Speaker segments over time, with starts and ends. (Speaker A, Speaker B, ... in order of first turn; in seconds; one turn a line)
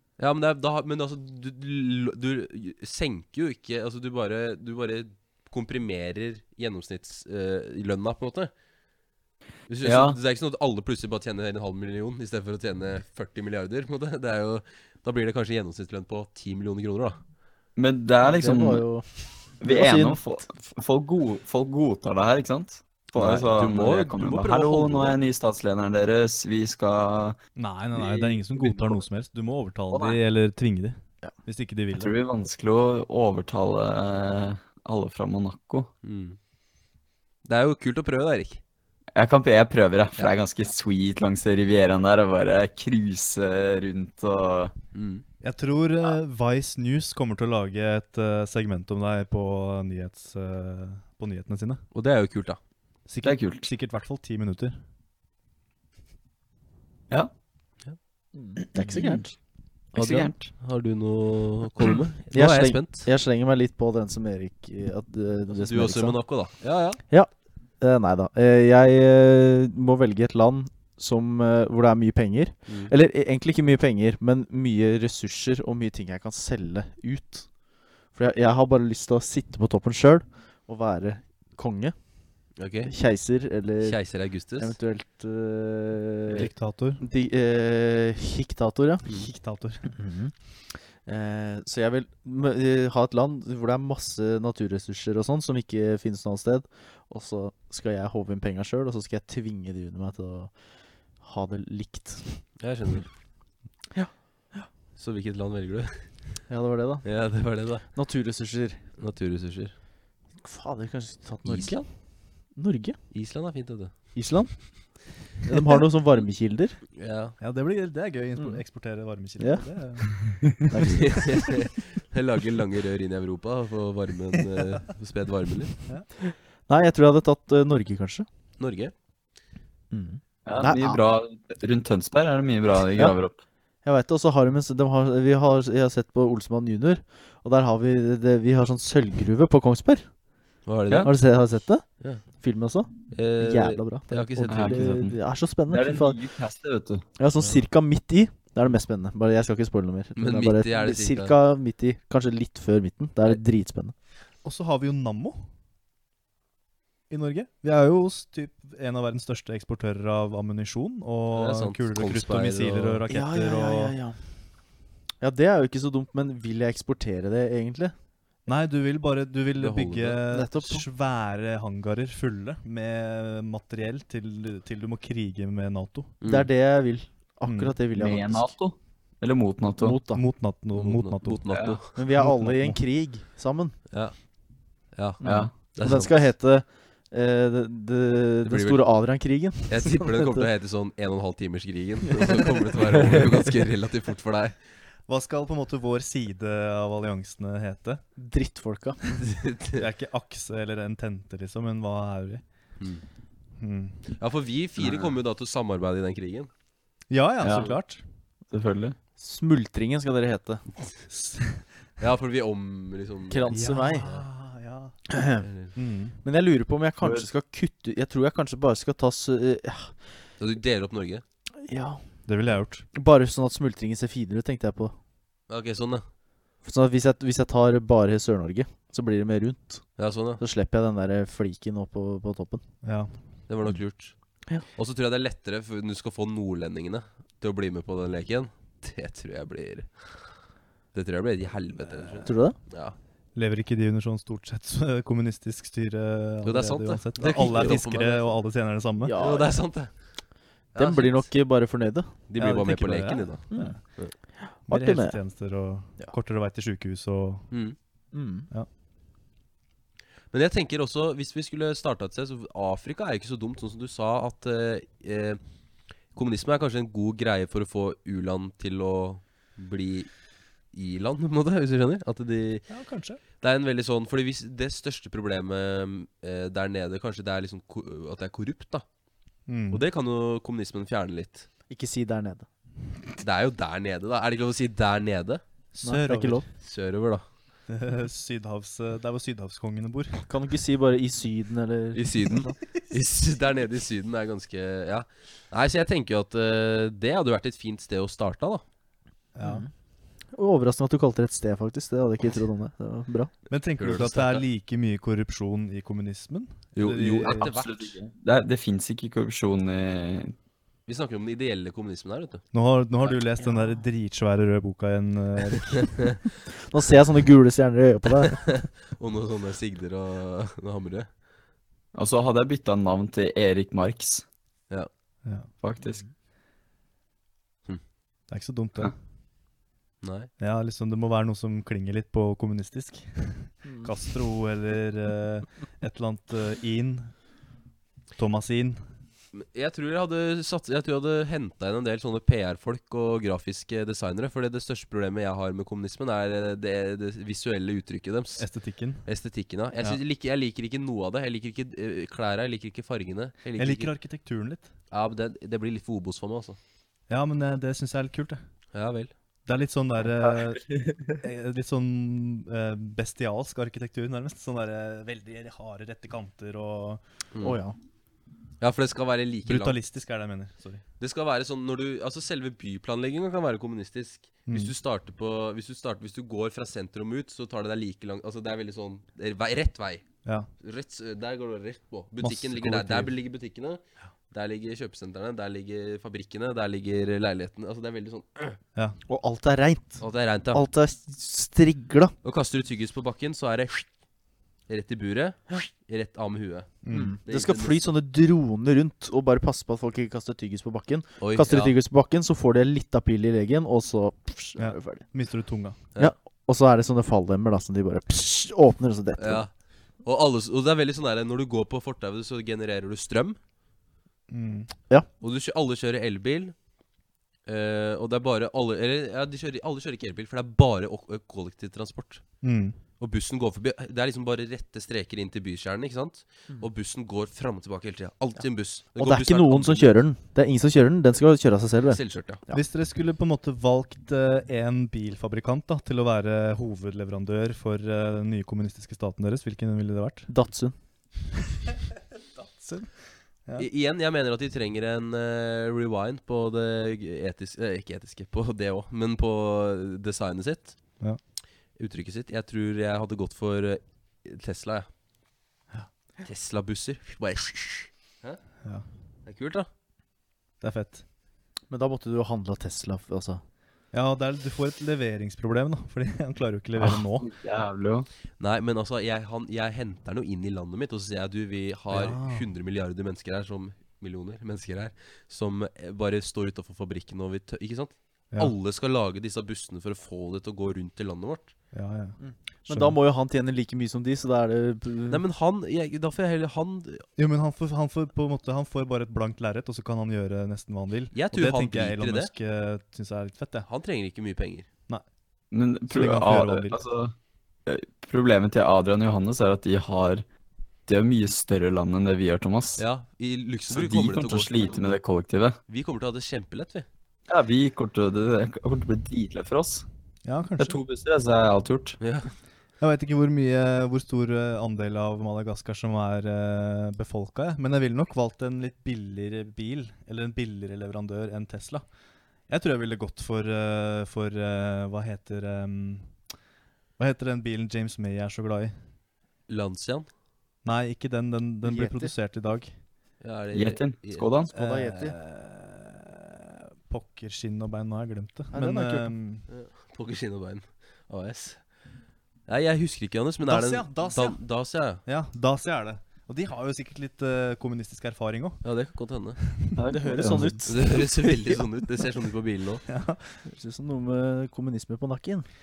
Speaker A: 0.2-8.5
Speaker A: 9.7-17.2
Speaker B: 9.8-10.2
Speaker B: 17.8-18.8
Speaker C: 18.2-20.2
Speaker B: 19.6-27.4
Speaker A: 23.1-25.1
Speaker D: 27.6-32.1
Speaker B: 28.0-28.9
Speaker B: 29.9-30.2
Speaker B: 31.9-35.9
Speaker A: 36.0-36.4
Speaker A: 37.4-38.6
Speaker B: 39.1-44.7
Speaker A: 44.9-45.2
Speaker D: 45.4-51.8
Speaker A: 51.9-52.6
Speaker D: 53.1-54.8
Speaker B: 53.2-53.6
Speaker C: 58.3-59.3
Speaker B: 58.7-59.3
Speaker B: 59.9-60.5
Speaker A: 60.0-63.1
Speaker C: 62.3-66.2
Speaker A: 65.5-67.0
Speaker C: 67.1-77.5
Speaker A: 72.7-72.9
Speaker C: 78.1-81.9
Speaker A: 82.6-82.9
Speaker C: 82.8-84.0
Speaker A: 83.8-84.7
Speaker C: 84.6-86.5
Speaker D: 86.3-87.0
Speaker C: 87.0-89.1
Speaker D: 89.1-90.0
Speaker C: 89.9-90.3
Speaker C: 91.0-100.6
Speaker C: 101.2-102.4
Speaker A: 102.6-103.1
Speaker C: 103.9-104.7
Speaker A: 105.0-106.4
Speaker C: 106.5-107.2
Speaker A: 107.0-107.9
Speaker C: 107.9-108.8
Speaker A: 109.0-109.7
Speaker C: 110.4-111.9
Speaker A: 111.4-111.8
Speaker C: 112.5-113.0
Speaker A: 113.1-113.9
Speaker C: 114.1-114.8
Speaker C: 115.4-116.8
Speaker A: 117.0-117.4
Speaker D: 117.4-120.8
Speaker C: 118.4-118.6
Speaker C: 119.4-119.6
Speaker C: 120.7-121.6
Speaker A: 120.9-125.8
Speaker D: 124.5-124.8
Speaker C: 126.2-128.3
Speaker A: 128.6-128.9
Speaker C: 129.9-131.0
Speaker B: 130.4-133.4
Speaker C: 133.8-140.1
Speaker A: 140.7-141.2
Speaker C: 141.0-146.2
Speaker A: 143.1-145.0
Speaker B: 144.5-147.0
Speaker C: 147.2-153.9
Speaker A: 150.2-151.3
Speaker D: 154.4-155.4
Speaker D: 157.1-163.9
Speaker A: 161.3-163.0
Speaker C: 163.1-164.2
Speaker C: 165.2-167.9
Speaker D: 168.4-176.1
Speaker A: 169.6-170.2
Speaker C: 170.3-170.8
Speaker A: 176.2-176.5
Speaker C: 176.2-178.5
Speaker D: 177.4-177.7
Speaker B: 177.9-180.0
Speaker C: 179.8-180.2
Speaker D: 180.1-182.8
Speaker A: 180.7-181.9
Speaker B: 181.5-181.8
Speaker C: 181.9-183.8
Speaker A: 183.9-184.1
Speaker A: 184.9-186.2
Speaker C: 185.2-190.5
Speaker B: 185.2-185.5
Speaker A: 188.4-188.8
Speaker A: 189.7-194.6
Speaker D: 195.1-198.0
Speaker C: 198.2-199.0
Speaker A: 199.2-199.8
Speaker D: 199.7-202.4
Speaker A: 202.8-203.0
Speaker D: 203.6-204.1
Speaker A: 204.2-206.5
Speaker C: 204.8-205.1
Speaker D: 207.1-208.0
Speaker B: 207.4-207.7
Speaker A: 207.5-207.8
Speaker B: 208.5-208.9
Speaker C: 209.2-210.6
Speaker D: 211.1-211.6
Speaker A: 212.0-214.2
Speaker C: 213.3-214.1
Speaker D: 213.5-215.0
Speaker C: 215.1-215.4
Speaker A: 215.4-215.7
Speaker D: 215.8-216.2
Speaker C: 216.2-220.0
Speaker B: 217.0-217.3
Speaker A: 220.4-221.2
Speaker C: 221.6-222.0
Speaker D: 222.2-222.8
Speaker C: 222.9-224.9
Speaker A: 225.5-226.0
Speaker C: 226.6-229.8
Speaker A: 230.0-230.4
Speaker C: 230.4-232.6
Speaker D: 232.8-233.1
Speaker A: 233.5-234.1
Speaker A: 234.7-240.3
Speaker A: 240.9-242.9
Speaker C: 242.2-242.6
Speaker D: 243.3-249.1
Speaker A: 246.4-248.4
Speaker C: 247.3-247.8
Speaker C: 249.0-249.6
Speaker A: 249.2-250.0
Speaker A: 250.7-251.3
Speaker C: 250.8-252.1
Speaker A: 252.3-254.1
Speaker D: 252.4-253.8
Speaker C: 253.5-253.8
Speaker C: 254.4-255.2
Speaker D: 254.7-257.5
Speaker A: 257.5-257.8
Speaker C: 258.1-258.5
Speaker A: 260.3-265.4
Speaker A: 266.1-270.1
Speaker A: 270.7-272.7
Speaker D: 272.7-273.2
Speaker A: 273.4-278.8
Speaker D: 279.5-279.8
Speaker A: 279.7-281.5
Speaker C: 281.7-282.5
Speaker A: 283.2-285.4
Speaker D: 285.7-286.4
Speaker C: 285.8-286.4
Speaker A: 286.6-287.2
Speaker D: 287.7-290.2
Speaker C: 290.3-292.5
Speaker A: 291.9-298.6
Speaker D: 299.3-299.6
Speaker C: 299.4-299.7
Speaker C: 300.3-303.3
Speaker D: 303.5-307.5
Speaker A: 303.8-304.4
Speaker A: 306.8-307.9
Speaker B: 307.3-310.3
Speaker A: 310.9-312.4
Speaker D: 312.5-316.2
Speaker C: 316.6-318.5
Speaker A: 318.3-321.1
Speaker B: 321.9-324.2
Speaker B: 325.6-326.0
Speaker C: 325.8-326.1
Speaker D: 328.3-328.9
Speaker A: 330.0-330.3
Speaker D: 330.4-337.2
Speaker D: 338.1-338.8
Speaker A: 339.3-348.5
Speaker D: 348.4-349.0
Speaker A: 349.0-353.9
Speaker D: 353.6-354.7
Speaker A: 354.9-356.6
Speaker D: 357.1-358.4
Speaker A: 358.7-359.1
Speaker D: 359.4-367.0
Speaker B: 360.2-361.2
Speaker C: 367.4-367.8
Speaker A: 368.6-369.8
Speaker D: 369.4-370.8
Speaker A: 371.0-380.0
Speaker D: 374.5-374.7
Speaker A: 380.6-388.6
Speaker D: 382.2-383.1
Speaker C: 389.1-392.1
Speaker A: 390.0-390.6
Speaker A: 392.2-393.9
Speaker A: 394.7-396.7
Speaker D: 396.8-397.2
Speaker C: 396.9-405.0
Speaker A: 397.2-397.9
Speaker A: 401.2-401.8
Speaker D: 404.6-405.8
Speaker C: 406.0-409.4
Speaker A: 409.2-409.5
Speaker A: 410.0-413.4
Speaker D: 414.3-414.7
Speaker A: 415.2-416.5
Speaker A: 417.4-422.2
Speaker D: 422.4-422.8
Speaker A: 423.0-430.0
Speaker C: 428.9-432.6
Speaker A: 431.9-432.4
Speaker D: 432.5-440.3
Speaker C: 440.3-440.7
Speaker D: 442.4-442.9
Speaker A: 443.6-450.8
Speaker A: 451.8-454.9
Speaker A: 456.2-458.4
Speaker A: 459.2-459.7
Speaker D: 460.6-461.0
Speaker C: 461.7-463.4
Speaker D: 463.9-467.3
Speaker B: 466.8-468.1
Speaker A: 468.4-481.5
Speaker D: 471.9-472.5
Speaker D: 481.7-482.2
Speaker C: 482.2-485.2
Speaker D: 482.7-482.9
Speaker A: 485.1-487.1
Speaker D: 487.2-493.7
Speaker A: 491.1-492.3
Speaker A: 493.6-494.7
Speaker B: 495.5-497.1
Speaker D: 495.9-496.8
Speaker B: 497.6-500.2
Speaker B: 500.9-502.8
Speaker A: 502.8-504.8
Speaker B: 503.7-505.6
Speaker A: 505.7-506.9
Speaker B: 507.3-509.9
Speaker D: 510.2-510.8
Speaker B: 510.6-512.0
Speaker A: 512.0-512.3
Speaker D: 512.8-521.8
Speaker D: 522.5-526.1
Speaker D: 527.0-528.7
Speaker A: 529.5-530.1
Speaker D: 530.6-532.7
Speaker C: 531.6-532.1
Speaker A: 533.2-534.3
Speaker B: 533.5-534.5
Speaker C: 534.5-535.2
Speaker D: 534.5-539.5
Speaker C: 538.5-539.1
Speaker A: 539.5-541.6
Speaker A: 542.5-545.0
Speaker D: 543.5-544.4
Speaker D: 545.0-548.6
Speaker A: 548.6-549.4
Speaker B: 549.8-550.6
Speaker C: 549.9-551.6
Speaker A: 550.6-552.8
Speaker D: 552.9-553.4
Speaker C: 553.4-555.5